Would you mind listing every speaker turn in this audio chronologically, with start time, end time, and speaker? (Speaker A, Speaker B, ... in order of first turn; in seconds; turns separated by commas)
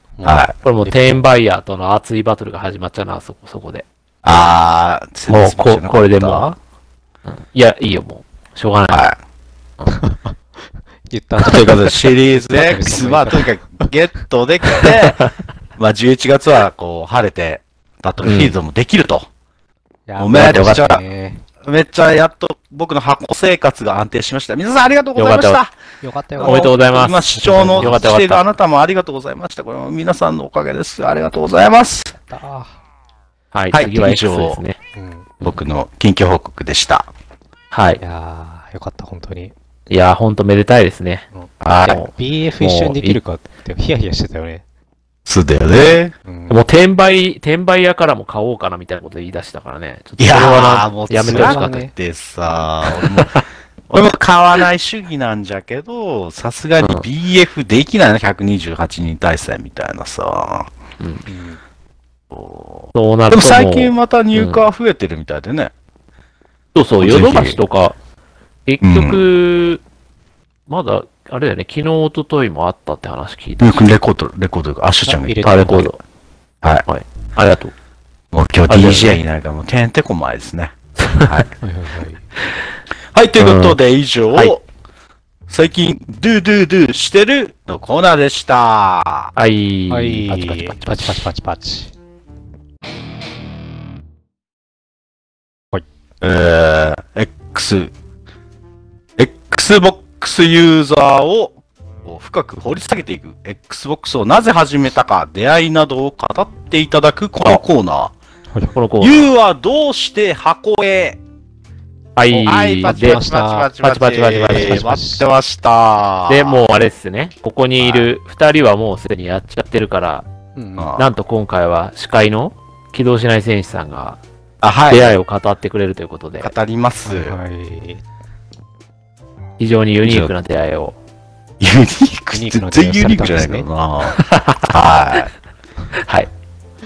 Speaker A: 0.2-1.2, Speaker B: 0.2-0.5, Speaker C: 0.6-3.8, Speaker B: 4.2-6.5, Speaker C: 5.3-6.6, Speaker C: 7.3-9.1, Speaker B: 8.9-9.2, Speaker A: 9.8-10.3, Speaker A: 11.1-13.9, Speaker B: 11.4-15.2, Speaker C: 14.9-15.2, Speaker B: 15.8-19.3, Speaker C: 18.2-18.5, Speaker A: 20.1-21.4, Speaker B: 20.2-21.0, Speaker C: 20.3-20.8, Speaker B: 21.6-25.7, Speaker C: 25.1-25.6, Speaker A: 26.0-26.7, Speaker B: 26.4-32.1, Speaker C: 26.4-28.4, Speaker A: 27.3-28.1, Speaker A: 32.3-32.7, Speaker C: 33.5-34.8, Speaker B: 33.7-34.6, Speaker A: 34.9-35.3, Speaker B: 35.4-37.1, Speaker C: 37.7-38.0, Speaker A: 38.0-39.5, Speaker C: 39.9-41.3, Speaker A: 41.3-44.6, Speaker B: 41.6-42.0, Speaker C: 41.9-43.2, Speaker B: 45.2-46.1, Speaker A: 46.2-46.6, Speaker C: 46.5-51.8, Speaker B: 50.2-60.7, Speaker A: 51.2-51.9, Speaker C: 52.9-53.4, Speaker C: 56.8-57.0, Speaker C: 61.0-61.2, Speaker A: 61.2-61.6, Speaker B: 62.3-65.7, Speaker C: 62.9-64.6, Speaker C: 66.7-68.0, Speaker B: 67.0-67.6, Speaker C: 68.7-69.8, Speaker B: 68.8-69.2, Speaker C: 70.7-73.8, Speaker B: 73.6-75.9, Speaker A: 75.0-75.9, Speaker C: 75.4-76.0, Speaker C: 76.9-77.7, Speaker B: 78.3-81.5, Speaker C: 78.7-79.2, Speaker C: 81.0-81.4, Speaker A: 81.6-82.2, Speaker B: 83.1-84.6, Speaker C: 83.4-83.8, Speaker B: 85.5-89.3, Speaker C: 89.3-91.3, Speaker A: 89.9-91.9, Speaker B: 96.2-97.9, Speaker B: 99.2-108.1, Speaker C: 108.7-109.3, Speaker B: 109.0-111.2, Speaker C: 112.2-113.2, Speaker B: 112.3-116.7, Speaker A: 112.8-113.7, Speaker C: 113.8-114.9, Speaker A: 114.5-115.2, Speaker C: 116.3-120.2, Speaker B: 117.8-118.1, Speaker A: 120.5-120.9, Speaker B: 120.8-121.1, Speaker C: 121.0-124.2, Speaker B: 124.6-125.1, Speaker C: 124.9-126.5, Speaker B: 126.4-127.3, Speaker A: 127.0-128.0, Speaker C: 129.6-131.0, Speaker B: 130.0-130.3, Speaker B: 131.6-135.3, Speaker A: 132.3-133.7, Speaker C: 134.1-134.7, Speaker C: 136.0-136.3